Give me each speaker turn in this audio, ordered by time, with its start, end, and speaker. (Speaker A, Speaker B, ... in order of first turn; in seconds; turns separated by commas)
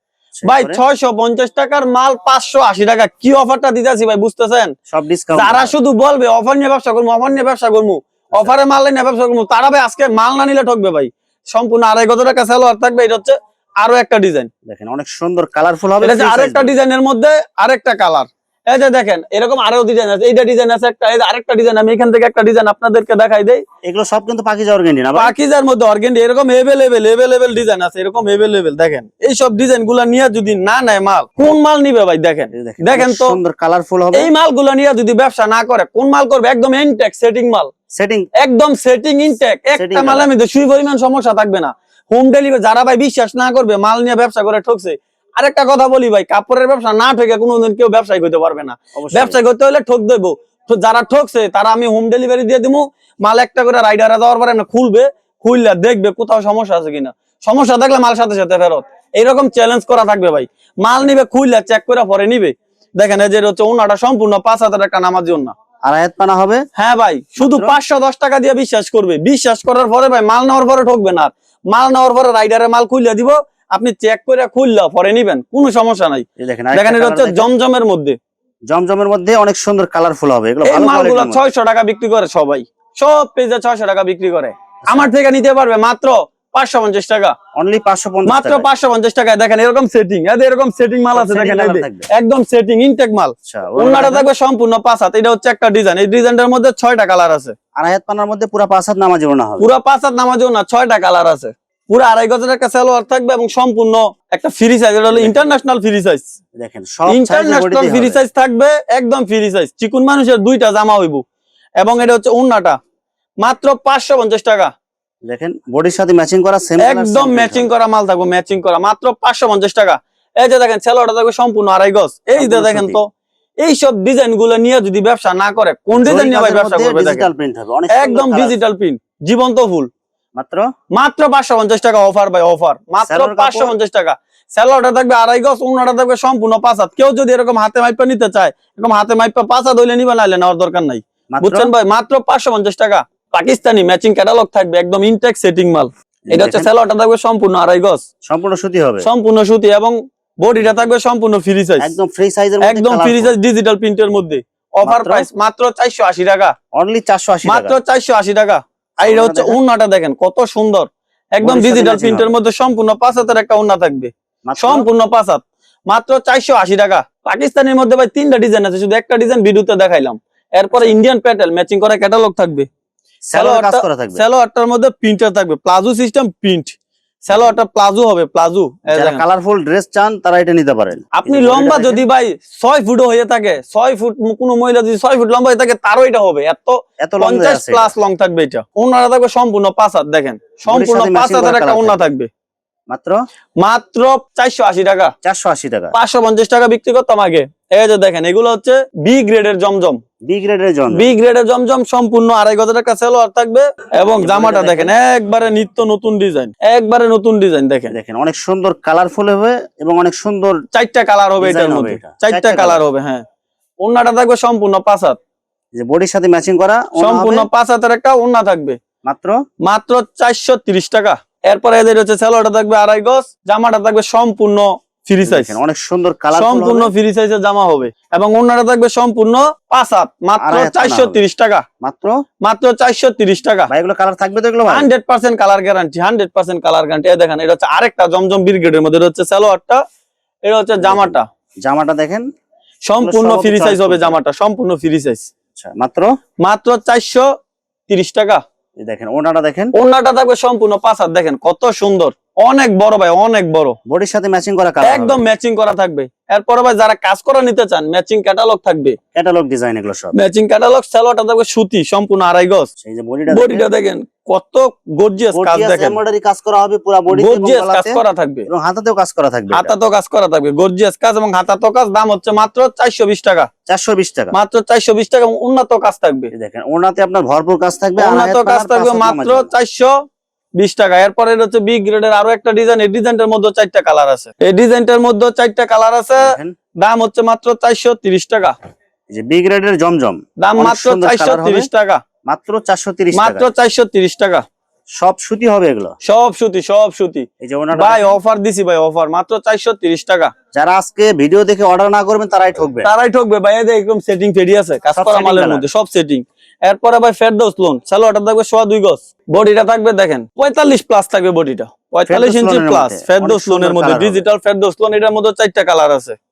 Speaker A: 0.4-0.8, Speaker B: 0.5-4.7, Speaker A: 4.9-5.8, Speaker B: 5.3-14.5, Speaker A: 8.3-8.6, Speaker A: 14.7-16.7, Speaker B: 16.0-23.6, Speaker A: 23.8-25.3, Speaker B: 25.1-33.4, Speaker A: 32.5-34.3, Speaker B: 34.1-37.7, Speaker A: 37.9-38.3, Speaker B: 38.4-65.5, Speaker A: 39.8-40.3, Speaker A: 48.9-49.4, Speaker A: 65.9-66.6, Speaker B: 66.8-78.2, Speaker A: 67.4-67.8, Speaker A: 76.4-77.5, Speaker A: 78.7-81.4, Speaker B: 80.6-87.3, Speaker A: 84.9-85.1, Speaker A: 87.6-88.7, Speaker B: 88.2-97.5, Speaker A: 91.2-92.1, Speaker A: 93.5-94.3, Speaker A: 97.8-99.7, Speaker B: 99.6-106.3, Speaker A: 105.1-105.5, Speaker A: 106.6-108.2, Speaker B: 107.1-111.2, Speaker B: 111.8-112.8, Speaker B: 113.4-114.7, Speaker A: 115.3-117.7, Speaker B: 116.8-123.1, Speaker A: 122.4-123.0, Speaker B: 123.6-127.3, Speaker A: 126.0-128.6, Speaker B: 127.9-129.9, Speaker A: 130.4-130.7, Speaker B: 130.9-148.0, Speaker A: 133.0-133.7, Speaker A: 141.3-141.7, Speaker A: 146.3-146.7, Speaker A: 148.3-149.1, Speaker B: 149.0-151.9, Speaker A: 151.8-153.4, Speaker B: 152.6-156.5, Speaker A: 154.8-155.3, Speaker A: 156.7-157.8, Speaker B: 157.4-172.7, Speaker A: 159.0-159.6, Speaker A: 161.4-162.3, Speaker A: 164.4-164.9, Speaker A: 173.3-174.2, Speaker B: 173.3-176.7, Speaker B: 177.2-179.2, Speaker A: 177.3-177.6, Speaker A: 178.9-182.0, Speaker B: 181.2-192.3, Speaker A: 187.0-187.9, Speaker A: 190.7-192.0, Speaker A: 192.9-193.2, Speaker B: 193.6-195.1, Speaker A: 195.2-195.9, Speaker B: 195.9-200.0, Speaker A: 200.3-201.1, Speaker B: 200.9-207.9, Speaker A: 204.2-204.9, Speaker A: 207.9-210.6, Speaker B: 210.7-213.2, Speaker A: 211.4-212.8, Speaker B: 213.8-215.2, Speaker A: 215.8-217.4, Speaker B: 217.0-218.8, Speaker A: 219.1-219.4, Speaker B: 219.7-225.6, Speaker A: 225.2-226.9, Speaker B: 226.3-231.6, Speaker A: 230.4-231.2, Speaker A: 231.8-232.1, Speaker B: 232.4-233.7, Speaker A: 233.7-234.9, Speaker B: 234.7-239.8, Speaker B: 240.4-241.2, Speaker A: 240.8-242.2, Speaker B: 242.9-245.3, Speaker A: 243.0-244.2, Speaker A: 245.6-246.1, Speaker B: 246.4-247.2, Speaker B: 247.9-248.4, Speaker A: 248.8-249.7, Speaker B: 249.7-253.8, Speaker A: 253.9-255.2, Speaker B: 254.8-259.0, Speaker A: 259.1-260.1, Speaker B: 260.1-262.7, Speaker A: 262.8-263.7, Speaker B: 263.3-266.0, Speaker A: 265.3-269.7, Speaker B: 267.1-268.5, Speaker B: 269.5-273.5, Speaker A: 273.7-274.4, Speaker B: 274.3-276.3, Speaker A: 276.3-279.5, Speaker B: 278.0-279.9, Speaker B: 280.6-288.5, Speaker A: 286.2-286.5, Speaker A: 289.1-291.7, Speaker B: 290.4-292.0, Speaker A: 292.3-293.5, Speaker B: 293.1-294.4, Speaker A: 295.0-295.9, Speaker B: 296.0-300.3, Speaker A: 297.4-298.2, Speaker A: 300.5-302.9, Speaker B: 302.8-316.2, Speaker A: 304.9-305.7, Speaker A: 312.1-314.3